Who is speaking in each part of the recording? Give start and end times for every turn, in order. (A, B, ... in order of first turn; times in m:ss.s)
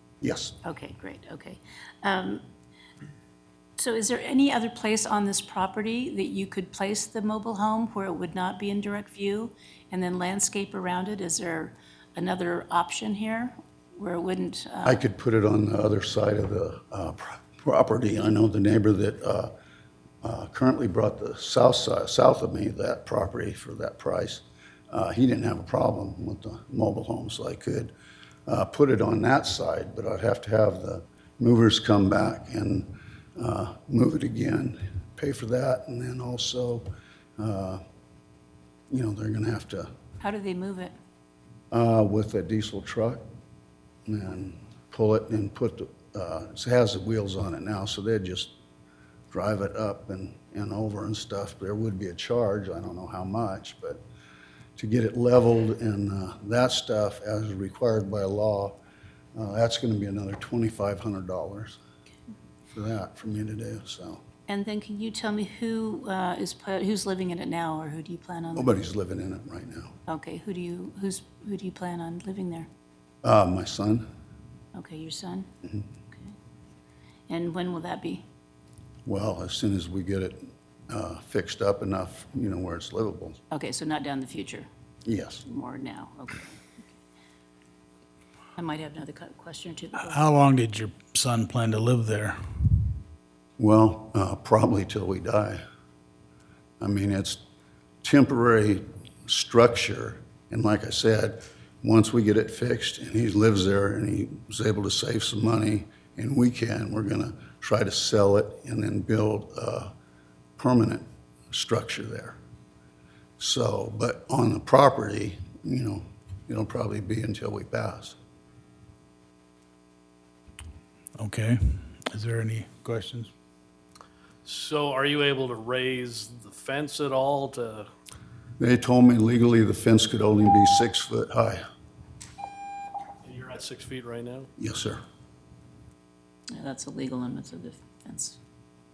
0:00.2-0:00.6 A
0:00.6-0:02.4 B
0:03.8-0:15.0 B
0:14.8-0:19.5 A
0:20.2-0:27.9 A
0:28.5-0:37.8 A
0:38.9-0:39.9 A
0:40.2-0:40.9 B
0:41.7-0:43.2 A
0:44.1-0:48.5 A
0:49.3-0:54.0 A
0:54.8-0:58.8 A
0:59.4-1:01.8 A
1:02.7-1:04.2 A
1:04.5-1:08.7 B
1:08.6-1:10.0 A
1:10.1-1:12.7 B
1:13.2-1:14.1 A
1:14.8-1:15.5 B
1:17.3-1:18.2 B
1:19.1-1:23.4 A
1:23.5-1:24.7 B
1:25.0-1:25.4 A
1:25.4-1:26.6 B
1:28.6-1:30.2 B
1:30.0-1:32.4 C
1:33.6-1:35.6 A
1:36.8-1:37.4 A
1:38.0-1:49.9 A
1:50.6-1:52.4 A
1:53.4-1:58.2 A
2:01.2-2:03.3 C
2:04.4-2:07.9 D
2:08.6-2:11.6 A
2:13.2-2:14.5 D
2:14.6-2:15.0 A
2:16.5-2:18.4 B